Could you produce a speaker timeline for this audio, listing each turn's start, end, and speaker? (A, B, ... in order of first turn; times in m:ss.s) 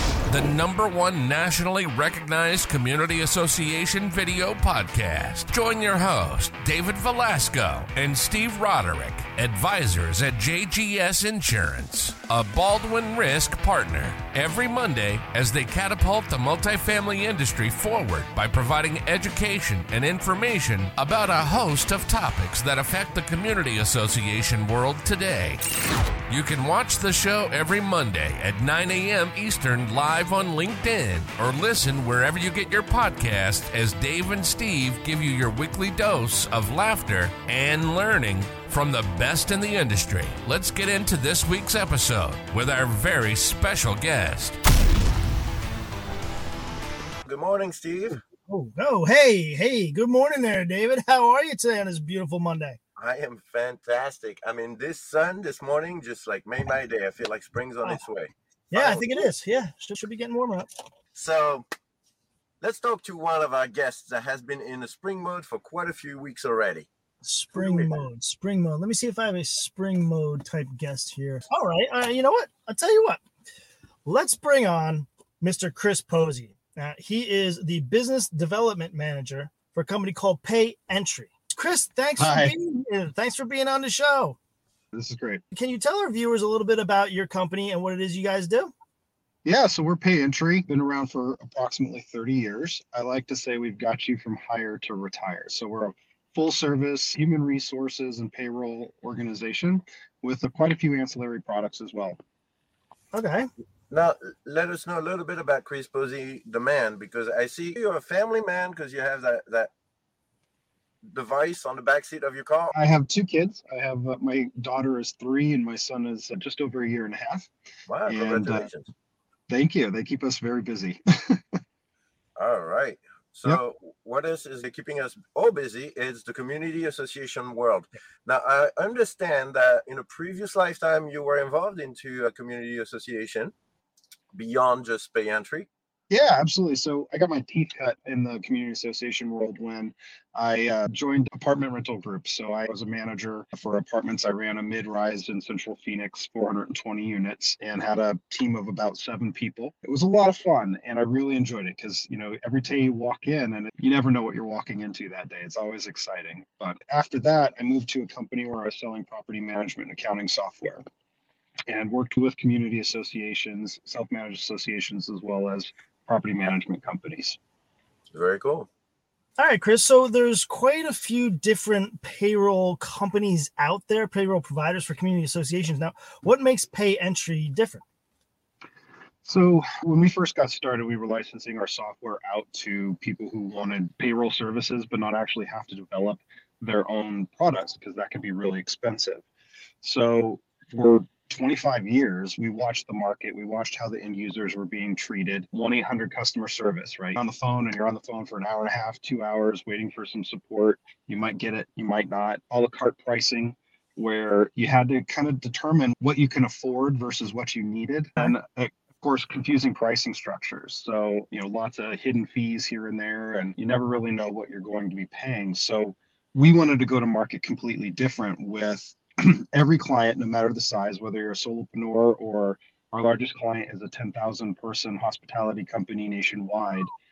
0:00.3-0:25.6 A
0:26.3-0:44.6 A
0:47.3-0:48.2 B
0:48.5-0:52.8 C
0:53.0-0:59.3 B
0:58.7-1:00.7 C
1:01.2-1:01.7 B
1:02.6-1:06.9 B
1:07.2-1:13.2 C
1:07.6-1:08.0 B
1:14.0-1:24.4 C
1:22.2-1:22.5 D
1:24.9-1:25.4 D
1:25.5-1:28.7 C
1:29.4-1:42.2 D
1:43.1-1:43.5 C
1:43.9-1:49.7 B
1:51.0-1:52.7 B
1:52.7-1:57.5 D
1:57.9-1:58.9 B
1:58.1-1:58.7 D
1:59.5-2:01.4 D
2:02.4-2:13.5 B
2:14.3-2:15.7 B
2:16.1-2:40.8 D
2:41.7-2:47.4 D
2:48.1-2:48.7 B
2:49.4-2:57.8 C
2:59.2-3:09.2 D
3:09.8-3:46.9 D